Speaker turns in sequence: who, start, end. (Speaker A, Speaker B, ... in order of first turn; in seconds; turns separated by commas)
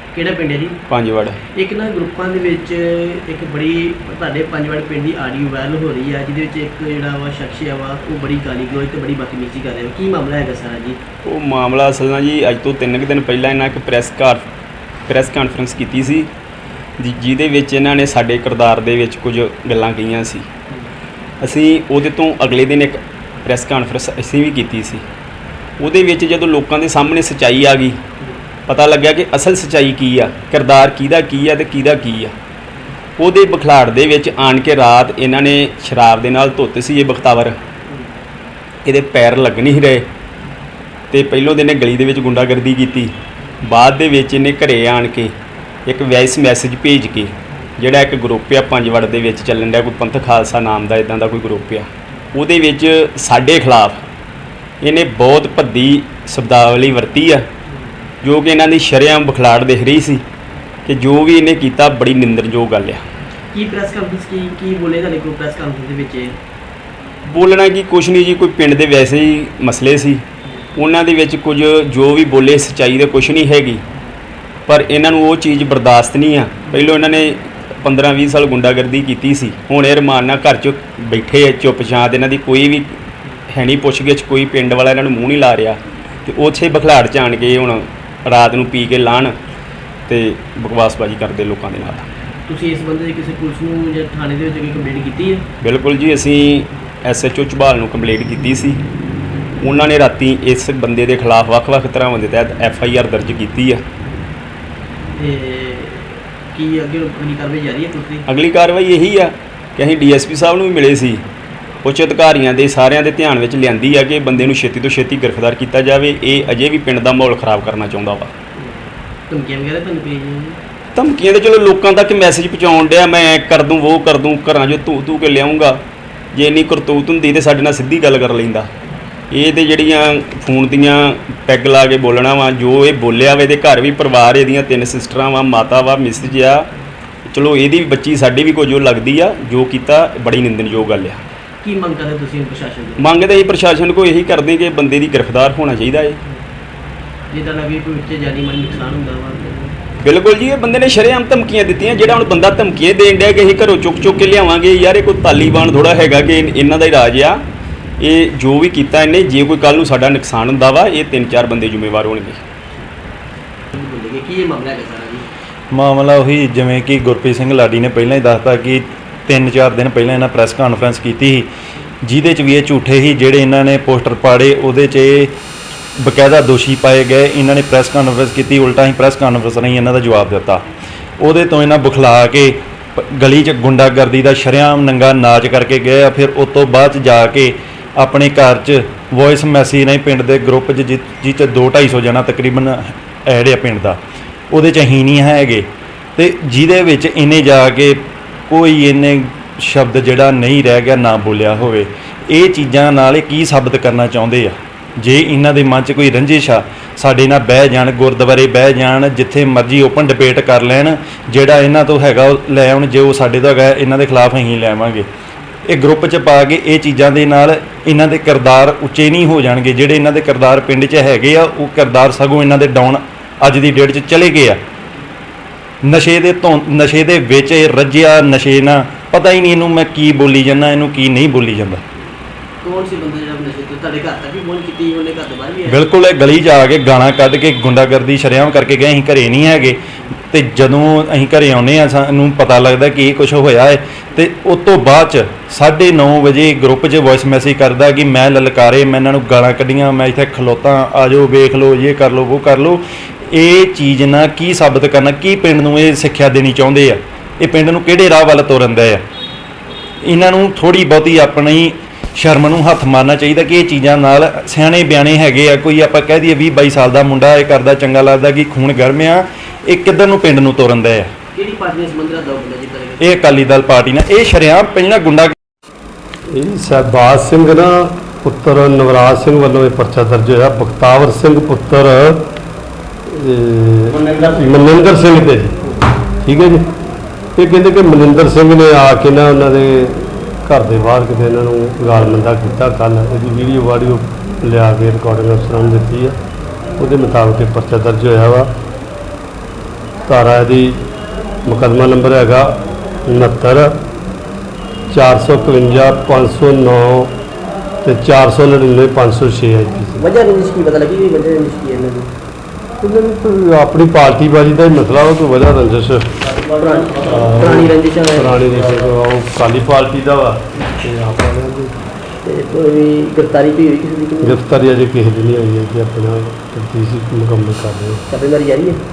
Speaker A: 0.1-0.8, Speaker B: 0.9-1.4, Speaker A: 1.5-11.0, Speaker B: 11.2-14.4, Speaker B: 15.1-16.3, Speaker B: 17.0-20.5, Speaker B: 21.4-25.0, Speaker B: 25.8-28.0, Speaker B: 28.7-32.3, Speaker B: 33.2-37.6, Speaker B: 38.9-40.0, Speaker B: 41.1-45.3, Speaker B: 45.9-54.0, Speaker B: 54.8-57.5, Speaker B: 58.2-60.2, Speaker B: 60.9-63.0, Speaker A: 63.5-66.4, Speaker B: 67.3-70.2, Speaker B: 70.8-73.8, Speaker B: 74.7-82.9, Speaker B: 83.5-89.3, Speaker B: 90.1-92.1, Speaker A: 92.5-95.5, Speaker B: 95.6-98.8, Speaker B: 99.6-103.8, Speaker A: 105.2-108.3, Speaker B: 108.3-111.2, Speaker B: 111.8-118.3, Speaker A: 118.6-120.6, Speaker B: 121.0-125.8, Speaker B: 126.3-128.7, Speaker B: 129.3-136.7, Speaker B: 137.3-141.2, Speaker A: 141.6-143.1, Speaker B: 143.0-146.2, Speaker A: 147.3-149.8, Speaker B: 150.0-157.4, Speaker B: 158.0-162.4, Speaker A: 163.7-165.3, Speaker C: 165.7-171.5, Speaker C: 172.0-175.3, Speaker C: 176.0-180.6, Speaker C: 181.2-194.0, Speaker C: 194.5-215.1, Speaker C: 215.7-224.6, Speaker C: 225.8-231.8, Speaker A: 232.6-235.8, Speaker C: 235.7-259.0, Speaker C: 260.0-271.1, Speaker A: 271.4-273.1, Speaker C: 273.0-275.3, Speaker D: 276.3-282.3, Speaker D: 283.1-285.6, Speaker D: 286.2-286.7, Speaker D: 287.4-296.2, Speaker D: 296.8-298.5, Speaker D: 300.1-300.7, Speaker D: 301.4-303.7, Speaker D: 304.9-307.1, Speaker D: 307.8-310.0, Speaker A: 310.0-312.1, Speaker D: 312.8-316.2, Speaker A: 316.6-318.4, Speaker D: 317.0-321.8, Speaker A: 322.2-324.4, Speaker D: 324.2-328.0, Speaker A: 328.1-328.8